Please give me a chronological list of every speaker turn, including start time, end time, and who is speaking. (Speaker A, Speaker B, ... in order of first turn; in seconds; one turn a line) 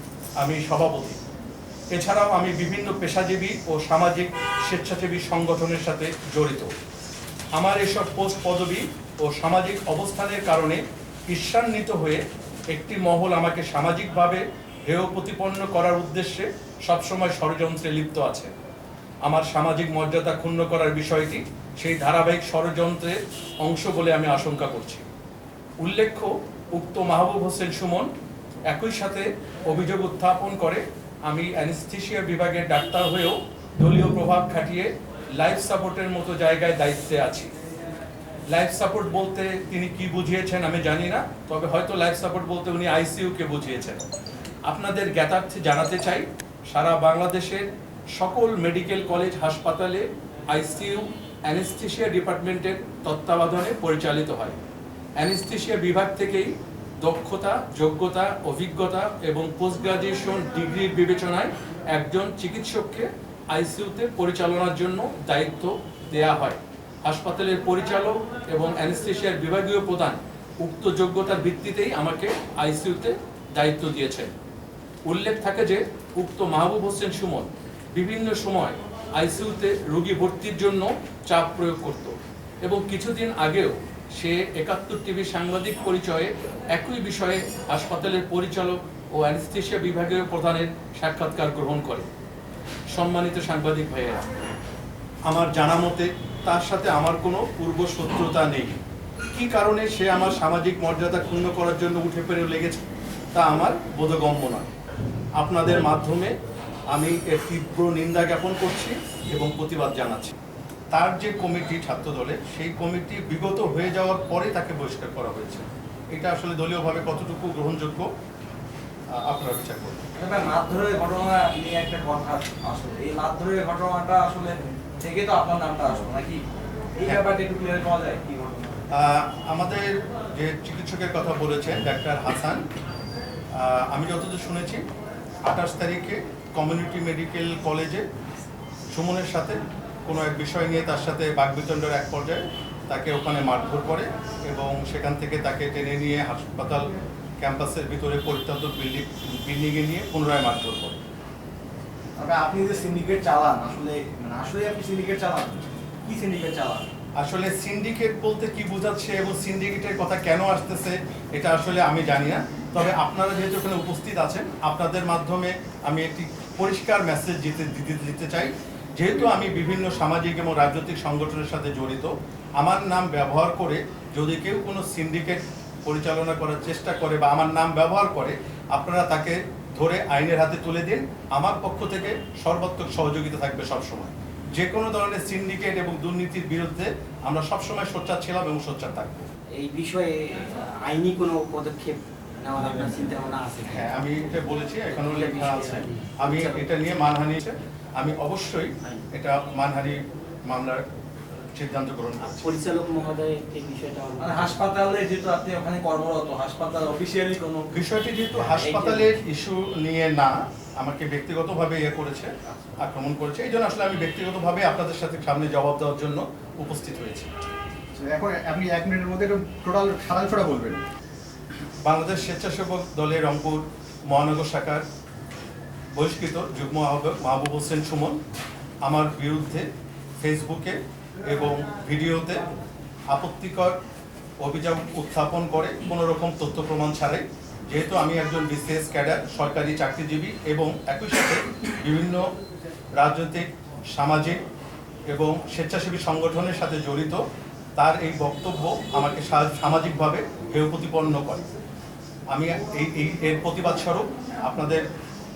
Speaker A: 0.4-1.2
Speaker A: 1.9-6.7
Speaker A: 7.5-18.5
Speaker A: 19.2-25.1
Speaker A: 25.8-28.1
Speaker A: 28.7-37.5
Speaker A: 38.5-44.0
Speaker A: 44.7-54.5
Speaker A: 55.2-74.3
Speaker A: 75.1-92.1
Speaker A: 92.9-94.3
Speaker A: 95.3-98.8
Speaker A: 99.3-102.8
Speaker A: 103.3-104.7
Speaker A: 105.4-106.3
Speaker A: 106.9-110.3
Speaker A: 110.9-118.1
Speaker A: 119.2-120.0
Speaker B: 120.2-126.4
Speaker B: 127.0-128.8
Speaker A: 128.9-132.6
Speaker A: 133.5-134.8
Speaker A: 135.4-138.1
Speaker A: 138.9-151.0
Speaker B: 152.2-156.9
Speaker A: 157.2-189.3
Speaker C: 189.6-196.9
Speaker A: 193.7-200.8
Speaker A: 201.5-202.5
Speaker C: 202.2-204.6
Speaker B: 204.2-207.7
Speaker A: 207.7-217.3
Speaker C: 208.4-209.2
Speaker D: 217.9-220.8
Speaker A: 221.8-224.8
Speaker A: 225.9-228.2
Speaker A: 228.8-229.7
Speaker A: 230.2-232.4
Speaker A: 233.1-233.8
Speaker A: 234.4-242.2
Speaker A: 242.9-244.4
Speaker A: 245.1-247.2
Speaker A: 247.8-251.5
Speaker A: 252.3-254.8